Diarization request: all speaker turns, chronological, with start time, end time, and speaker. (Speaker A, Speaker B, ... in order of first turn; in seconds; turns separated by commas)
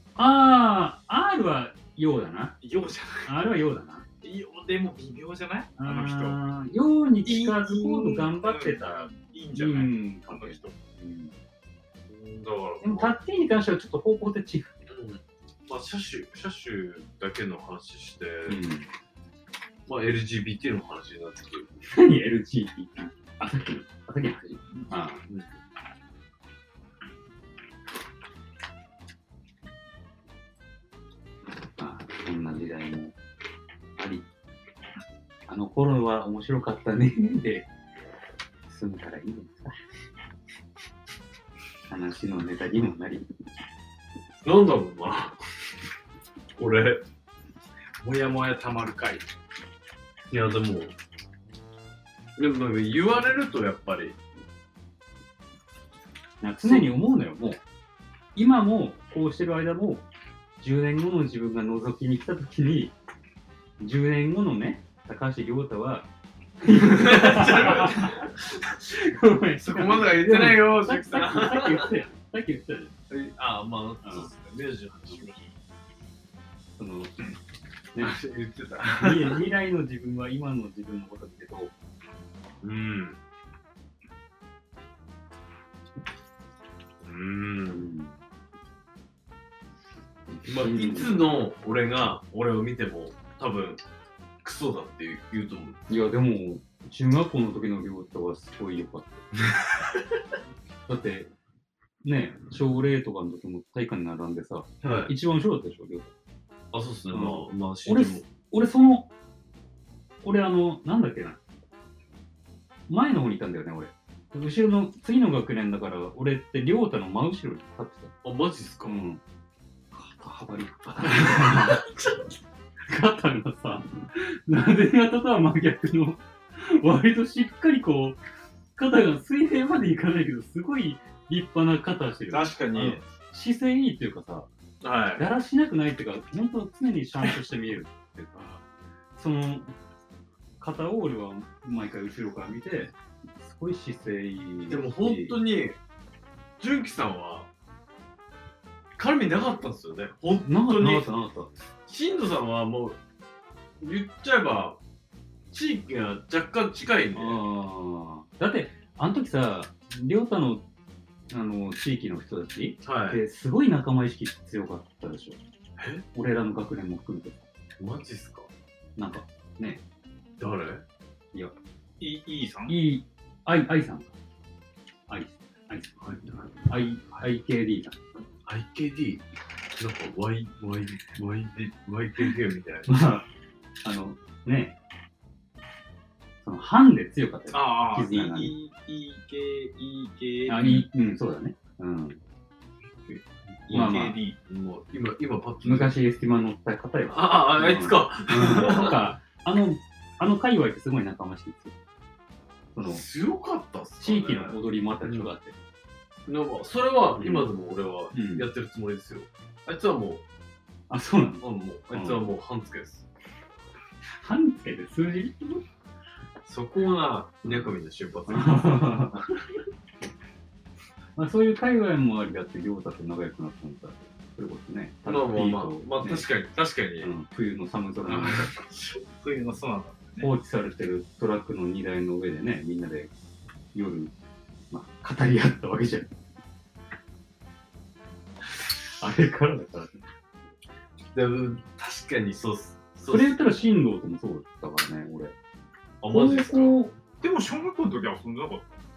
Speaker A: 0.2-2.6, Speaker B: 2.6-3.3, Speaker A: 3.3-4.0, Speaker B: 4.2-6.4, Speaker A: 5.8-11.3, Speaker B: 7.2-10.7, Speaker C: 12.1-13.2, Speaker A: 12.8-14.7, Speaker C: 14.9-18.6, Speaker A: 18.5-18.9, Speaker C: 19.9-21.8, Speaker A: 21.9-25.2, Speaker A: 31.8-33.1, Speaker A: 34.0-34.3, Speaker A: 35.5-37.7, Speaker A: 38.7-39.8, Speaker A: 41.9-43.3, Speaker C: 44.4-45.4, Speaker C: 46.6-47.0, Speaker B: 48.0-49.2, Speaker C: 50.3-51.0, Speaker C: 52.4-54.2, Speaker A: 56.4-57.6, Speaker A: 58.4-60.1, Speaker A: 60.6-62.9, Speaker A: 63.8-66.1, Speaker A: 66.6-72.9, Speaker C: 66.8-68.3, Speaker C: 69.6-71.9, Speaker C: 73.1-75.5, Speaker A: 74.0-74.3, Speaker A: 76.8-77.3, Speaker C: 78.0-79.5, Speaker A: 79.0-81.7, Speaker C: 82.6-83.2, Speaker C: 87.0-87.9, Speaker A: 87.7-88.2, Speaker A: 90.3-91.3, Speaker C: 90.5-93.8, Speaker C: 94.4-95.8, Speaker A: 95.9-99.3, Speaker A: 100.9-101.3, Speaker A: 102.0-106.1, Speaker C: 104.8-105.1, Speaker C: 106.7-108.3, Speaker A: 107.1-109.1, Speaker A: 110.2-111.4, Speaker A: 112.9-118.1, Speaker C: 118.2-119.0, Speaker A: 118.8-119.2, Speaker A: 119.9-121.8, Speaker C: 121.1-122.3, Speaker A: 122.9-128.2, Speaker A: 128.8-134.5, Speaker C: 132.3-133.0, Speaker C: 134.8-135.3, Speaker A: 135.2-138.6, Speaker A: 139.2-139.8, Speaker A: 140.6-145.4, Speaker C: 144.7-145.8, Speaker C: 146.6-147.5, Speaker C: 149.0-151.1, Speaker A: 150.4-151.5, Speaker C: 151.9-153.0, Speaker C: 153.8-154.8, Speaker C: 155.5-157.4, Speaker A: 157.1-160.7, Speaker A: 161.3-165.4, Speaker C: 162.8-163.2, Speaker C: 165.8-166.0, Speaker A: 166.1-167.4, Speaker C: 167.8-168.5, Speaker A: 169.0-169.8, Speaker C: 170.4-170.8, Speaker B: 172.0-172.8, Speaker A: 172.7-174.1, Speaker A: 175.1-176.0, Speaker C: 176.0-177.2, Speaker A: 176.7-178.0, Speaker C: 178.5-179.2, Speaker C: 179.8-183.0, Speaker A: 182.9-183.3, Speaker A: 183.8-184.8, Speaker A: 186.4-188.5, Speaker B: 187.5-190.8, Speaker A: 190.5-192.2, Speaker C: 193.1-193.9, Speaker B: 193.7-194.4, Speaker A: 193.7-194.2, Speaker C: 194.5-195.9, Speaker A: 195.6-201.8, Speaker C: 197.1-199.0, Speaker A: 202.7-203.1, Speaker C: 202.8-205.3, Speaker A: 204.0-205.6, Speaker C: 206.3-210.2, Speaker A: 207.2-207.5, Speaker A: 208.1-208.5, Speaker A: 210.9-212.3, Speaker C: 211.4-213.1, Speaker A: 214.2-215.6, Speaker C: 216.4-219.4, Speaker A: 217.4-217.7, Speaker A: 218.3-219.2, Speaker A: 221.2-226.3, Speaker C: 225.1-227.1, Speaker A: 227.0-228.5, Speaker C: 228.1-228.5, Speaker B: 229.0-230.3, Speaker A: 230.2-233.1, Speaker A: 233.7-234.1, Speaker A: 234.7-236.1, Speaker A: 239.0-240.1, Speaker C: 241.1-243.6, Speaker A: 243.1-245.3, Speaker C: 246.0-246.7, Speaker A: 246.1-246.9, Speaker B: 247.2-248.8